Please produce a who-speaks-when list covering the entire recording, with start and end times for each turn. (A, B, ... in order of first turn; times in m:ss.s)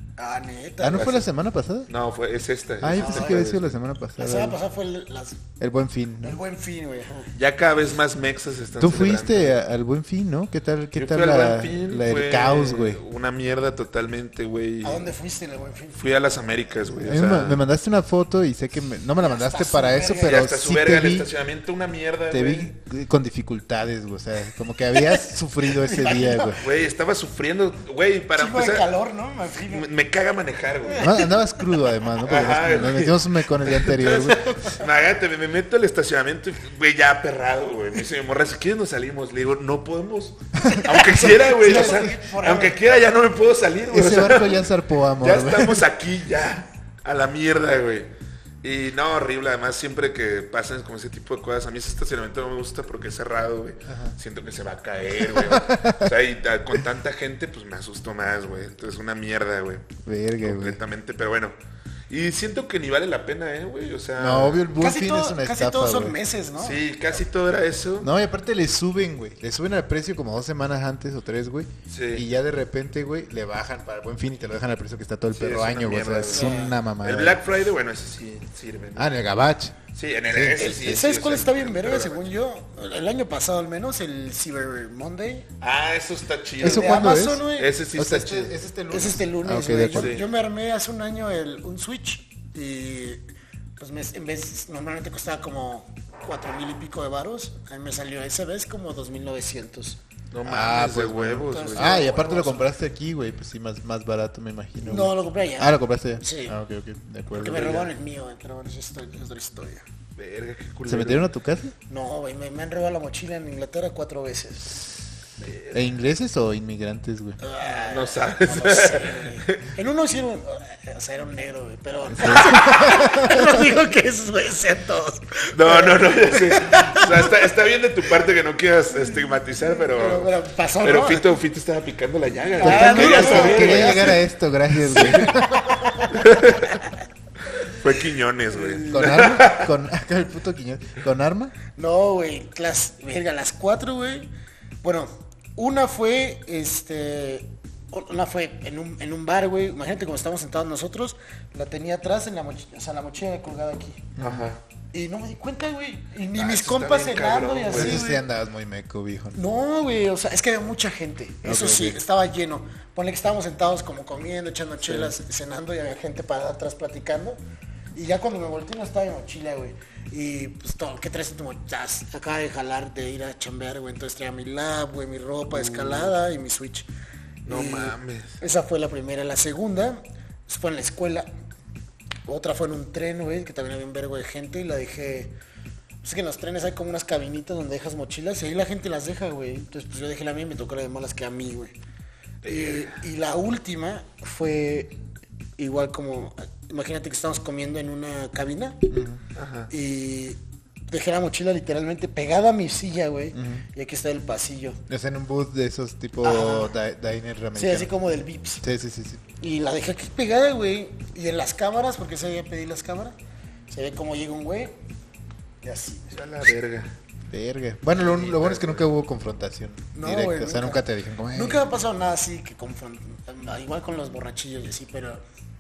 0:00.2-0:01.2 A
0:00.8-0:01.9 B
0:01.9-0:03.7 C
0:02.8-0:04.6 B
0:03.0-0:03.5 A
0:04.2-0:05.4 A
0:05.6-0:06.4 B
0:06.2-0:07.3 A
0:07.4-0:09.6 C
0:08.8-0:13.0 B
0:11.0-0:15.1 C
0:14.8-0:16.0 A
0:16.0-0:17.6 C
0:17.0-0:21.3 B
0:19.2-0:20.4 A
0:20.2-0:22.7 C
0:22.3-0:26.6 B
0:24.9-0:26.6 A
0:26.6-0:28.9 C
0:28.3-0:29.9 A
0:29.7-0:31.2 C
0:30.8-0:31.8 A
0:31.0-0:34.6 B
0:32.2-0:48.1 C
0:34.4-0:34.8 A
0:40.6-0:42.8 A
0:40.7-0:42.1 B
0:43.9-0:45.8 B
0:48.6-1:01.5 C
0:53.9-0:54.1 B
0:55.2-0:56.1 B
1:00.0-1:00.8 B
1:02.1-1:04.6 C
1:04.2-1:06.2 B
1:04.8-1:06.8 A
1:06.6-1:08.1 C
1:08.0-1:17.4 B
1:11.9-1:12.2 C
1:15.3-1:19.1 C
1:16.3-1:16.8 A
1:19.0-1:19.8 B
1:19.9-1:22.3 C
1:20.3-1:20.8 B
1:20.6-1:25.5 A
1:25.6-1:28.5 C
1:26.6-1:30.1 B
1:26.6-1:27.7 A
1:28.9-1:33.2 A
1:29.9-1:30.2 C
1:33.8-1:40.0 A
1:40.3-1:42.1 C
1:40.4-1:47.8 B
1:41.5-1:42.7 A
1:44.8-1:46.6 A
1:47.3-1:49.8 A
1:47.4-1:47.9 C
1:50.2-1:51.3 C
1:50.8-1:51.7 B
1:51.9-1:54.9 A
1:55.4-1:55.9 C
1:55.7-1:57.4 B
1:57.4-2:07.3 A
1:57.6-1:59.7 C
2:02.1-2:03.6 B
2:05.5-2:14.2 C
2:09.7-2:11.4 A
2:12.5-2:14.2 A
2:12.6-2:16.0 B
2:14.9-2:15.3 C
2:14.9-2:17.0 A
2:16.1-2:16.8 C
2:17.5-2:19.7 C
2:18.5-2:19.2 A
2:18.9-2:21.5 B
2:21.7-2:24.3 A
2:24.8-2:34.0 A
2:34.2-2:34.5 B
2:34.2-2:34.6 C
2:34.9-2:38.2 A
2:36.3-2:38.0 C
2:37.7-2:39.4 B
2:39.3-2:47.4 A
2:41.4-2:42.0 B
2:47.9-2:56.9 A
2:57.4-2:58.4 C
2:57.4-3:01.3 A
3:02.3-3:05.3 A
3:06.0-3:11.7 A
3:12.4-3:13.0 C
3:12.4-3:14.9 A
3:15.6-3:18.9 A
3:18.9-3:19.2 B
3:19.3-3:19.7 C
3:19.7-3:24.8 A
3:23.3-3:23.6 B
3:24.9-3:27.9 B
3:26.2-3:26.7 A
3:27.6-3:28.6 A
3:28.6-3:29.2 B
3:29.4-3:33.1 A
3:33.7-3:34.8 A
3:35.6-3:36.4 A
3:36.1-3:36.9 C
3:37.3-3:41.6 B
3:37.9-3:38.8 C
3:39.9-3:45.2 A